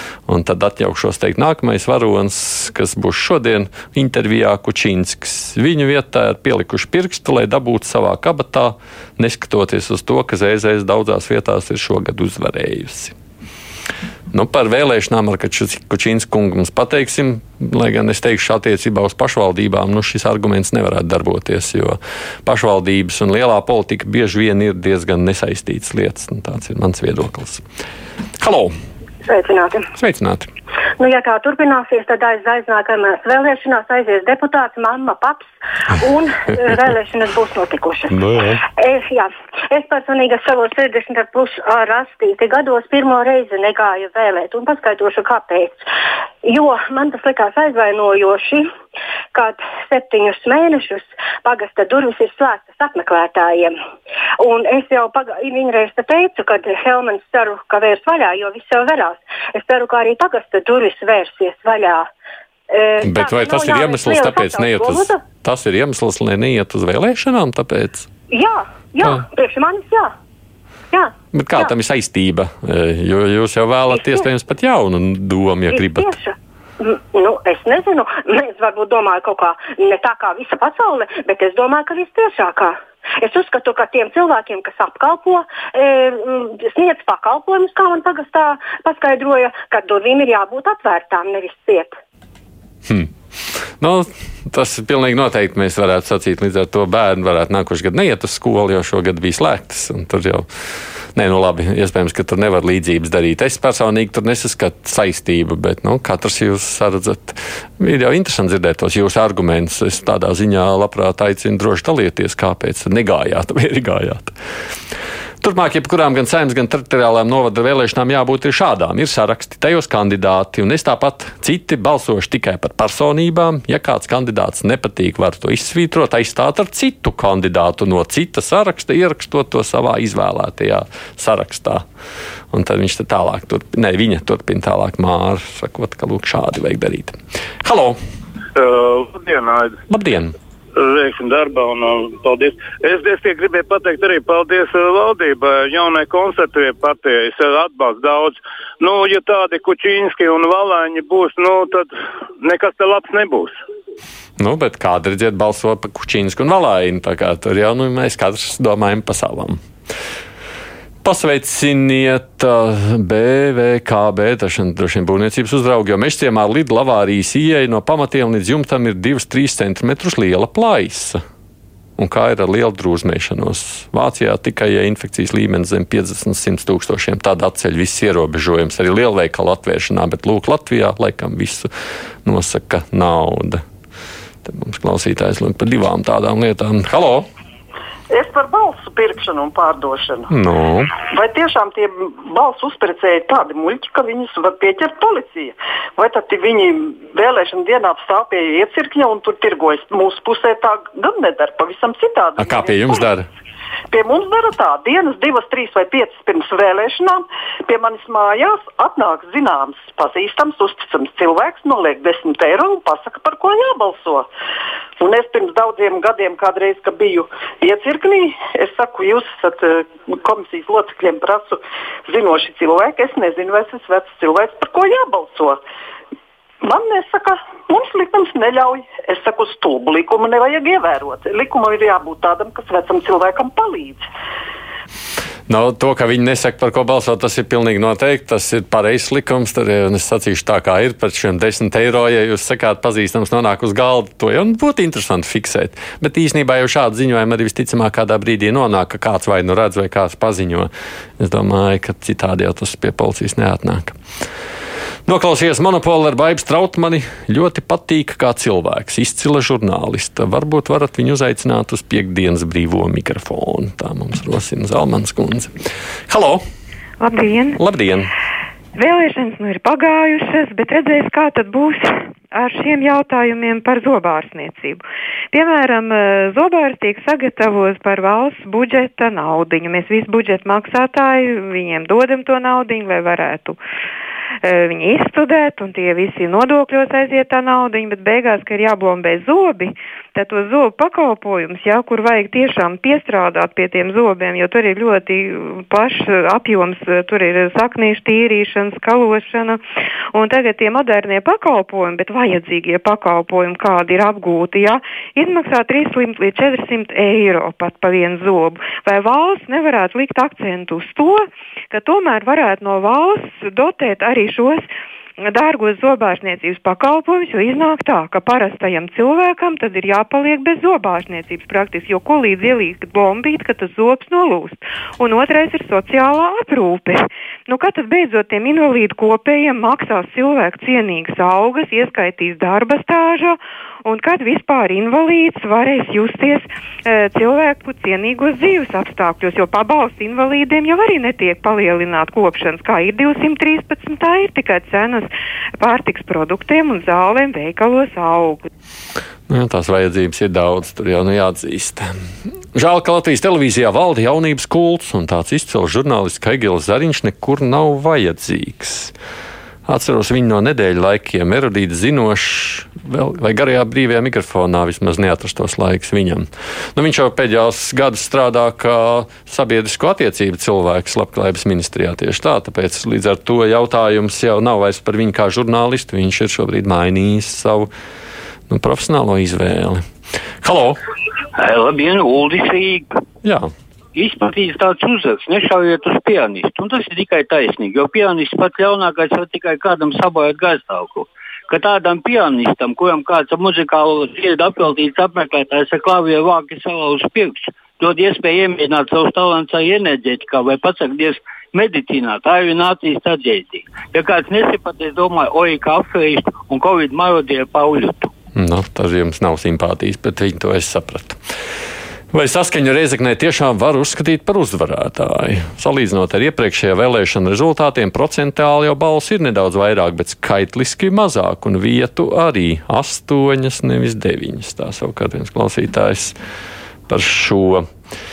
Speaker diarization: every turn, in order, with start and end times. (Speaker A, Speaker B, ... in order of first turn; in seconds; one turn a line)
Speaker A: 0.3-13.1
Speaker A: 14.3-27.6
Speaker A: 28.4-28.7
Speaker B: 29.2-29.8
Speaker A: 29.9-30.5
Speaker B: 31.0-45.9
Speaker A: 38.2-38.6
Speaker B: 46.4-48.6
Speaker B: 49.3-53.7
Speaker B: 54.4-62.1
Speaker B: 62.7-65.2
Speaker A: 63.0-68.1
Speaker B: 68.3-70.1
Speaker B: 70.9-71.7
Speaker A: 71.3-76.1
Speaker B: 73.9-74.3
Speaker B: 75.7-92.0
Speaker A: 93.8-100.5
Speaker A: 101.2-114.3
Speaker A: 115.4-131.8
Speaker A: 132.5-138.0
Speaker C: 138.6-139.7
Speaker A: 139.9-140.3
Speaker C: 140.8-151.9
Speaker C: 152.4-153.5
Speaker A: 154.4-159.6
Speaker A: 161.0-171.2
Speaker A: 172.0-181.7
Speaker A: 182.2-183.6
Speaker A: 184.4-187.2
Speaker D: 188.1-190.3
Speaker A: 190.3-190.9
Speaker D: 191.0-202.9
Speaker A: 202.4-203.3
Speaker D: 203.9-214.3
Speaker D: 215.0-225.6
Speaker D: 226.6-234.0
Speaker A: 235.5-254.0
Speaker A: 255.1-265.5
Speaker A: 266.1-266.4
Speaker E: 267.0-267.6
Speaker A: 267.6-268.1
Speaker E: 268.7-283.6
Speaker E: 284.4-299.6
Speaker E: 300.1-314.7
Speaker E: 315.2-348.4
Speaker A: 349.3-351.9
Speaker A: 352.5-358.9
Speaker A: 359.6-377.7
Speaker A: 378.5-379.8
Speaker A: 380.4-380.8
Speaker F: 381.3-382.9
Speaker F: 383.9-408.1
Speaker A: 408.3-411.2
Speaker A: 412.1-426.1
Speaker A: 426.9-427.6